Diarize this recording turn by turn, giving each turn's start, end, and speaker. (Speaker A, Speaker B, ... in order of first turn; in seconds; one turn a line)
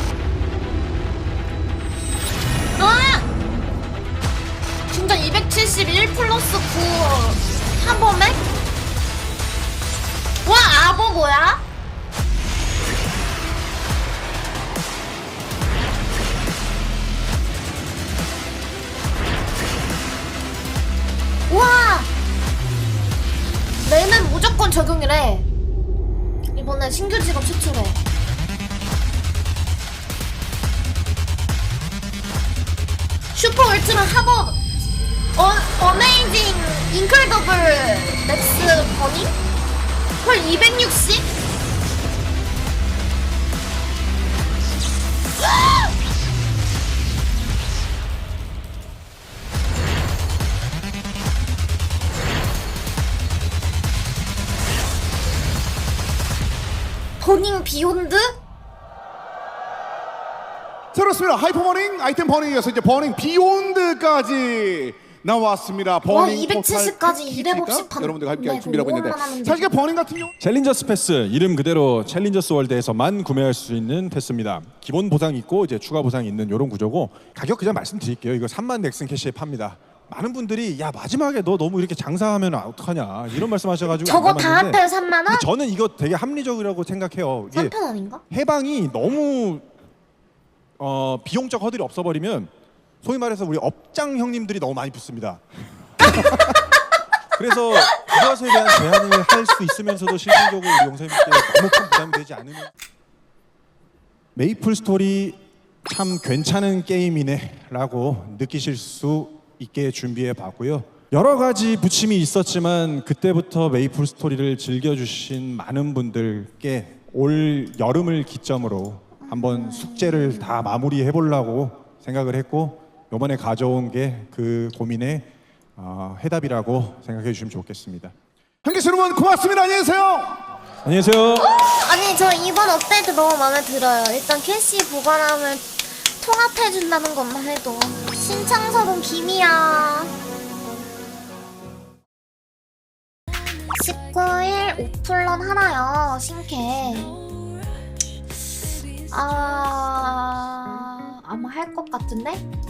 Speaker A: 2.8-3.2
Speaker A: 4.9-8.4
Speaker A: 10.4-11.6
Speaker A: 21.5-22.1
Speaker A: 23.8-25.5
Speaker A: 26.5-28.0
Speaker A: 33.3-34.6
Speaker A: 35.4-39.3
Speaker A: 40.2-41.3
Speaker A: 57.2-58.4
Speaker B: 60.9-70.3
Speaker A: 66.0-69.7
Speaker C: 70.4-87.7
Speaker A: 84.0-85.4
Speaker A: 87.5-88.2
Speaker C: 88.3-89.7
Speaker C: 90.8-92.5
Speaker C: 93.0-95.4
Speaker C: 97.3-102.7
Speaker C: 104.3-128.1
Speaker A: 119.2-120.6
Speaker B: 128.6-130.4
Speaker C: 130.8-131.5
Speaker A: 131.4-135.7
Speaker A: 136.2-140.1
Speaker A: 143.7-147.2
Speaker A: 149.1-152.4